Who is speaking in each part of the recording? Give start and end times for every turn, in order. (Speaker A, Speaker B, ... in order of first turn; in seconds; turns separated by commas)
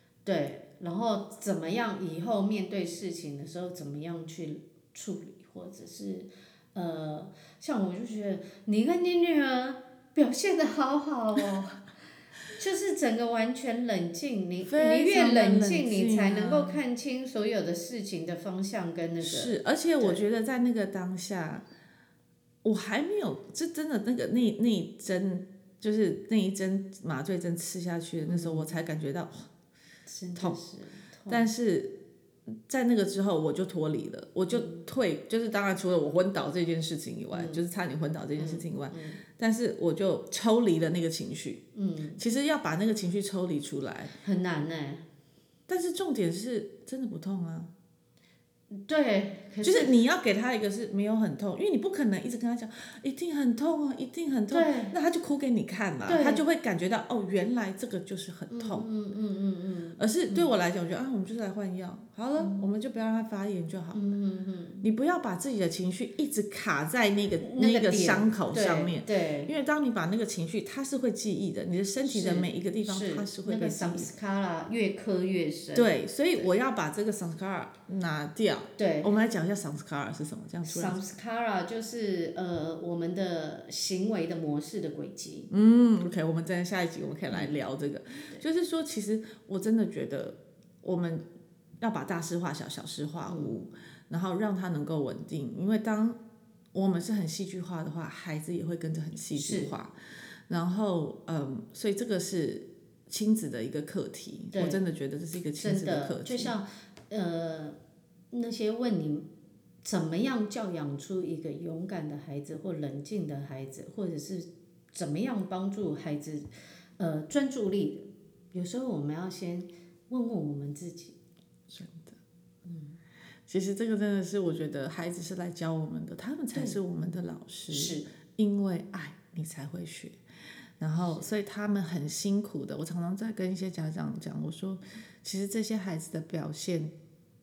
Speaker A: 0.2-11.8, Speaker A: 12.5-20.2, Speaker B: 14.6-16.8, Speaker B: 19.2-21.6, Speaker B: 22.6-29.5, Speaker A: 28.2-28.7, Speaker A: 30.1-31.5, Speaker B: 31.3-32.0, Speaker B: 32.7-41.6, Speaker A: 34.5-34.8, Speaker A: 37.3-37.6, Speaker A: 38.4-39.2, Speaker A: 41.7-42.2, Speaker B: 42.2-44.1, Speaker A: 44.2-45.0, Speaker B: 45.7-47.7, Speaker A: 48.7-49.9, Speaker B: 49.6-58.9, Speaker A: 54.5-54.9, Speaker A: 56.0-56.4, Speaker A: 58.5-60.5, Speaker B: 60.0-64.0, Speaker A: 62.4-62.6, Speaker A: 63.9-64.9, Speaker B: 64.8-74.1, Speaker A: 67.4-69.5, Speaker A: 72.0-76.5, Speaker B: 75.7-81.0, Speaker A: 78.8-79.1, Speaker A: 80.6-85.5, Speaker B: 85.5-91.2, Speaker B: 91.8-96.2, Speaker A: 93.3-93.6, Speaker B: 96.7-99.9, Speaker A: 99.4-99.7, Speaker B: 100.5-106.5, Speaker A: 104.5-104.8, Speaker A: 105.6-107.8, Speaker A: 108.3-109.3, Speaker A: 109.8-116.5, Speaker A: 117.0-121.2, Speaker B: 121.7-122.2, Speaker A: 122.7-123.0, Speaker B: 123.5-130.2, Speaker A: 127.7-128.1, Speaker B: 130.8-136.9, Speaker A: 131.0-131.2